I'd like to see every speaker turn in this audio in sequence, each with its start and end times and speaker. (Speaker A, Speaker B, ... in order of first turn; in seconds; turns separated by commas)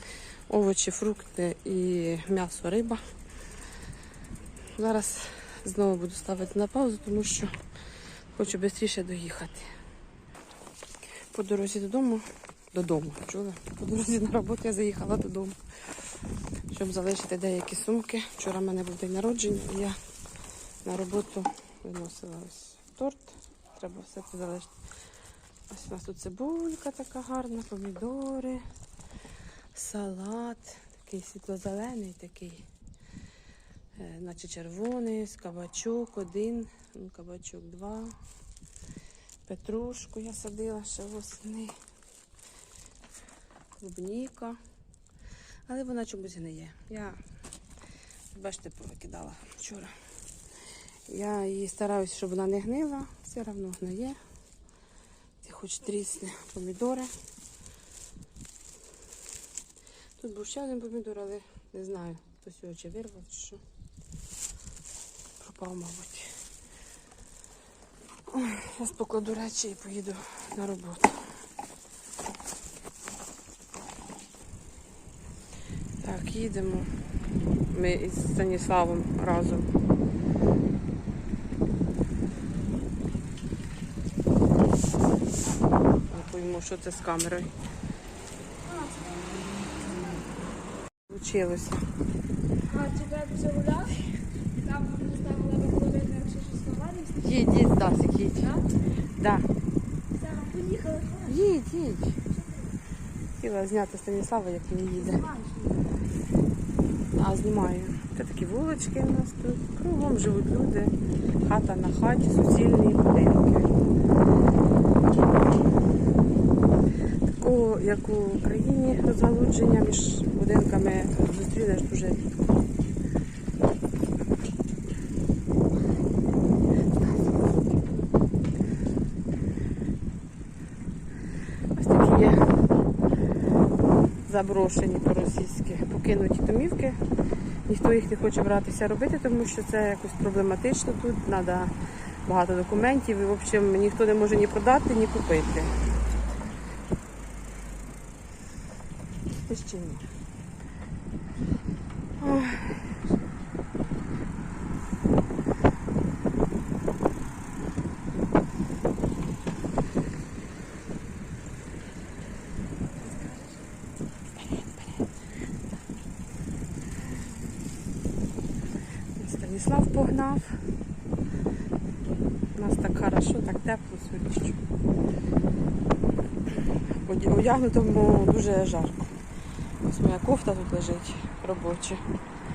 Speaker A: 0.5-3.0, Speaker A: 4.8-7.5, Speaker A: 8.3-9.7, Speaker A: 11.3-15.6, Speaker A: 16.7-19.9, Speaker A: 20.8-24.7, Speaker A: 25.7-28.6, Speaker A: 29.7-32.6, Speaker A: 34.0-38.1, Speaker A: 39.5-41.7, Speaker A: 43.8-44.6, Speaker A: 45.7-47.2, Speaker A: 48.3-49.9, Speaker A: 51.1-54.2, Speaker A: 55.4-57.1, Speaker A: 60.2-63.6, Speaker A: 65.4-66.3, Speaker A: 68.3-71.2, Speaker A: 76.0-76.9, Speaker A: 77.7-79.7, Speaker A: 86.1-87.5, Speaker B: 88.7-90.2, Speaker A: 91.1-91.8, Speaker B: 92.7-97.2, Speaker A: 97.1-98.7, Speaker A: 99.2-99.5, Speaker B: 100.2-101.2, Speaker A: 101.2-102.2, Speaker A: 103.4-105.3, Speaker B: 105.3-105.7, Speaker A: 107.1-113.7, Speaker A: 117.3-122.3, Speaker A: 131.7-132.4, Speaker A: 134.2-137.0, Speaker A: 137.7-141.7, Speaker A: 142.2-145.7, Speaker A: 149.5-150.0, Speaker A: 152.2-152.8, Speaker B: 163.0-163.5, Speaker A: 169.2-170.6, Speaker A: 172.5-174.6, Speaker A: 177.0-179.1, Speaker A: 179.8-182.0